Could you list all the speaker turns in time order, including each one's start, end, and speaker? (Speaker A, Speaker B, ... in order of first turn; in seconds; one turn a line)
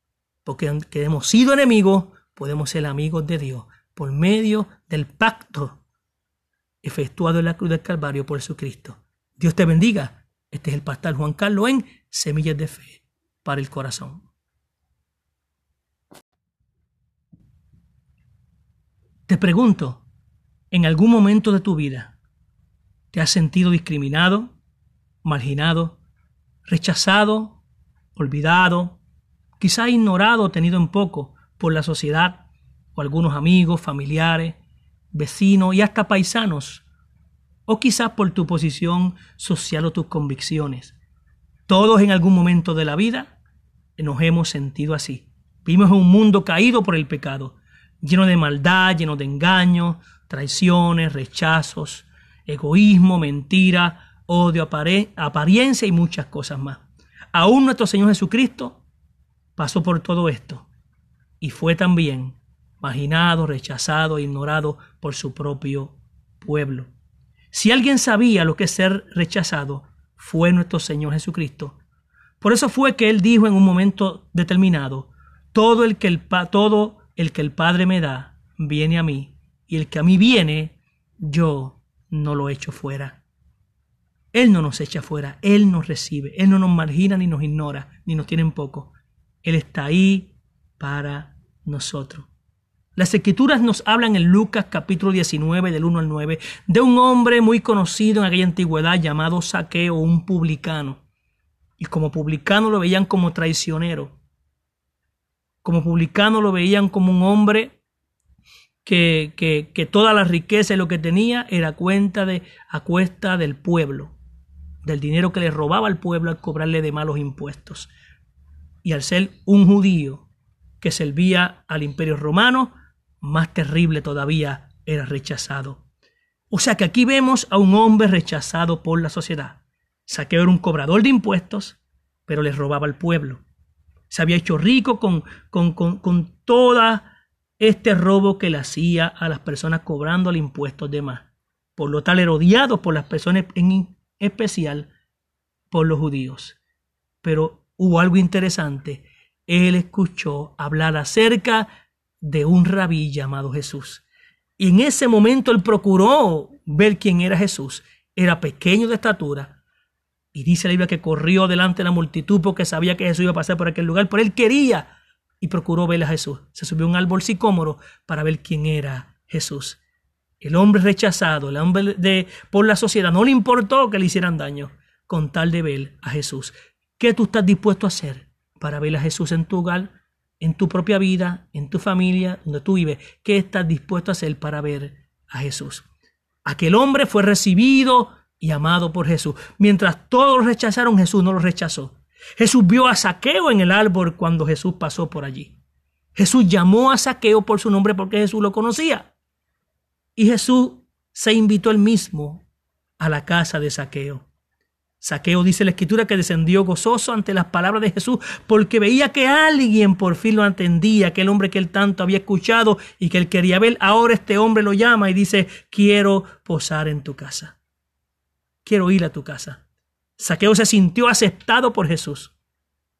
Speaker A: 0.5-5.8
Speaker A: 6.8-14.3
Speaker A: 19.3-20.0
Speaker A: 20.7-22.1
Speaker A: 23.1-24.5
Speaker A: 25.2-26.0
Speaker A: 26.7-27.6
Speaker A: 28.2-29.0
Speaker A: 29.6-32.4
Speaker A: 33.0-34.6
Speaker A: 35.1-36.9
Speaker A: 37.7-41.0
Speaker A: 41.7-43.3
Speaker A: 44.0-58.8
Speaker A: 59.6-60.7
Speaker A: 61.4-66.9
Speaker A: 67.5-71.8
Speaker A: 72.4-83.2
Speaker A: 84.3-88.9
Speaker A: 89.4-92.3
Speaker A: 93.0-101.0
Speaker A: 101.8-104.2
Speaker A: 105.6-107.8
Speaker A: 108.8-114.1
Speaker A: 114.8-117.9
Speaker A: 118.8-120.3
Speaker A: 120.8-125.8
Speaker A: 126.5-133.4
Speaker A: 134.1-144.9
Speaker A: 145.7-146.6
Speaker A: 147.2-151.7
Speaker A: 152.2-154.0
Speaker A: 154.6-159.6
Speaker A: 160.3-164.9
Speaker A: 165.4-169.8
Speaker A: 170.4-185.9
Speaker A: 186.5-195.6
Speaker A: 196.2-199.1
Speaker A: 200.2-202.4
Speaker A: 203.0-204.3
Speaker A: 205.0-217.6
Speaker A: 218.7-219.6
Speaker A: 220.2-222.3